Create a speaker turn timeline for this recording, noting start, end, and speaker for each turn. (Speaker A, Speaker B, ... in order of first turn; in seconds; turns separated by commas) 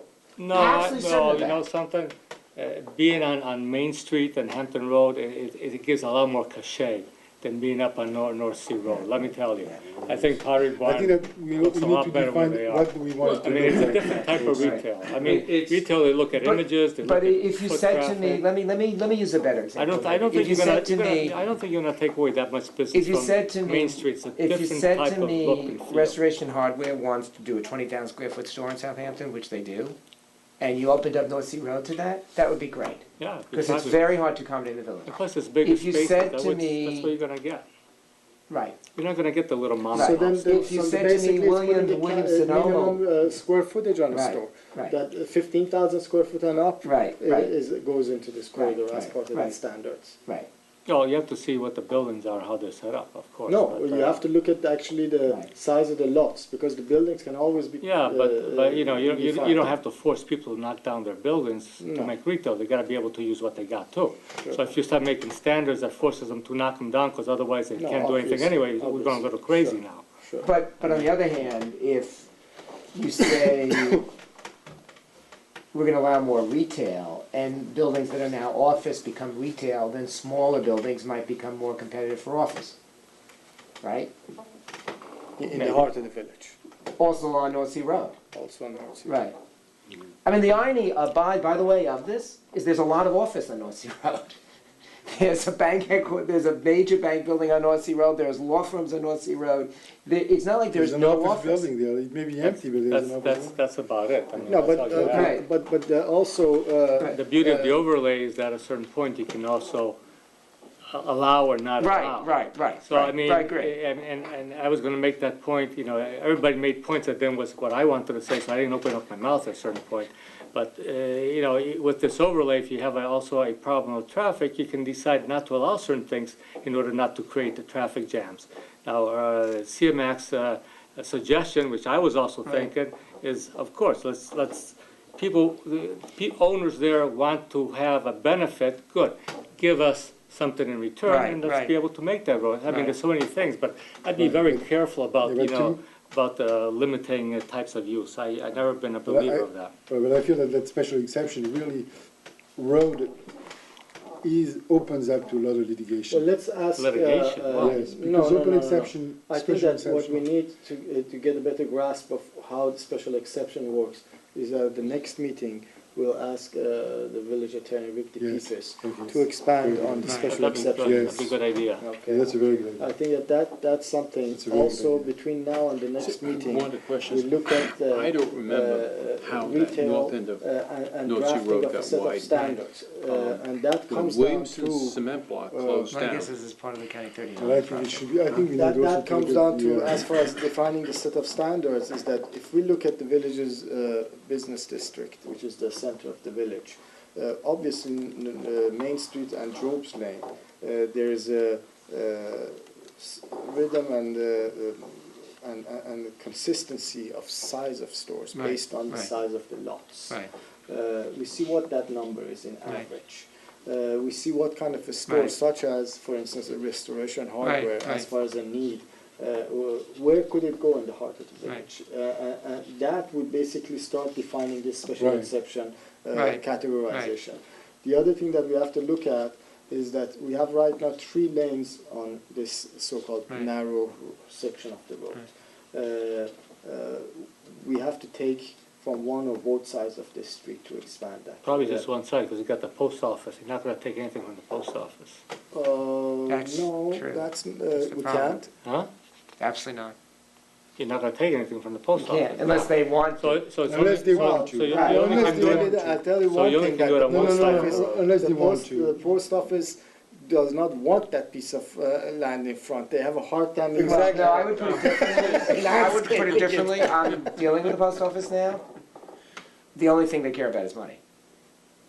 Speaker A: 0.4-18.4, Speaker B: 0.5-1.6, Speaker B: 8.9-9.7, Speaker C: 10.8-14.8, Speaker D: 13.5-14.4, Speaker B: 14.5-21.4, Speaker A: 19.8-26.2, Speaker B: 22.9-29.9, Speaker B: 30.6-37.1, Speaker A: 33.2-34.0, Speaker A: 35.0-37.6, Speaker B: 38.5-38.8, Speaker A: 38.9-40.7, Speaker B: 39.9-43.0, Speaker E: 39.9-50.2, Speaker B: 44.1-45.0, Speaker B: 46.8-47.5, Speaker B: 48.5-49.5, Speaker A: 50.9-54.2, Speaker E: 53.5-59.7, Speaker A: 57.8-70.0, Speaker E: 61.8-62.1, Speaker E: 67.8-70.5, Speaker B: 70.4-72.3, Speaker A: 70.8-71.1, Speaker B: 72.9-74.1, Speaker B: 75.7-82.8, Speaker B: 83.8-84.1, Speaker E: 85.4-86.5, Speaker A: 85.5-85.9, Speaker B: 87.0-88.2, Speaker E: 88.3-89.2, Speaker B: 89.0-89.3, Speaker B: 90.2-94.4, Speaker B: 95.1-101.7, Speaker C: 100.7-103.6, Speaker A: 102.4-105.3, Speaker E: 104.4-107.8, Speaker B: 104.9-105.4, Speaker A: 107.0-110.0, Speaker A: 110.9-149.7, Speaker B: 111.8-113.7, Speaker B: 141.1-141.7, Speaker B: 142.7-142.9, Speaker C: 144.2-144.7, Speaker C: 145.2-145.8, Speaker C: 149.1-151.9, Speaker C: 152.6-153.2, Speaker C: 154.2-156.2, Speaker E: 156.1-185.0, Speaker A: 156.8-157.8, Speaker C: 157.6-160.2, Speaker C: 168.2-171.3, Speaker B: 170.0-170.3, Speaker A: 170.3-171.8, Speaker C: 172.1-172.9, Speaker C: 174.3-175.1, Speaker D: 176.0-186.3, Speaker E: 185.5-186.0, Speaker B: 185.9-188.1, Speaker C: 187.4-190.1, Speaker E: 188.5-241.9, Speaker B: 208.3-209.1, Speaker B: 215.1-215.3, Speaker B: 217.4-218.1, Speaker C: 225.0-225.3, Speaker B: 226.1-227.1, Speaker A: 241.4-245.2, Speaker E: 245.5-248.5, Speaker B: 246.3-248.5, Speaker B: 249.4-249.9, Speaker A: 250.8-258.0, Speaker B: 251.9-253.4, Speaker C: 253.7-256.0, Speaker E: 253.9-266.7, Speaker C: 257.0-258.9, Speaker C: 263.7-265.3, Speaker B: 264.0-268.6, Speaker B: 269.7-271.0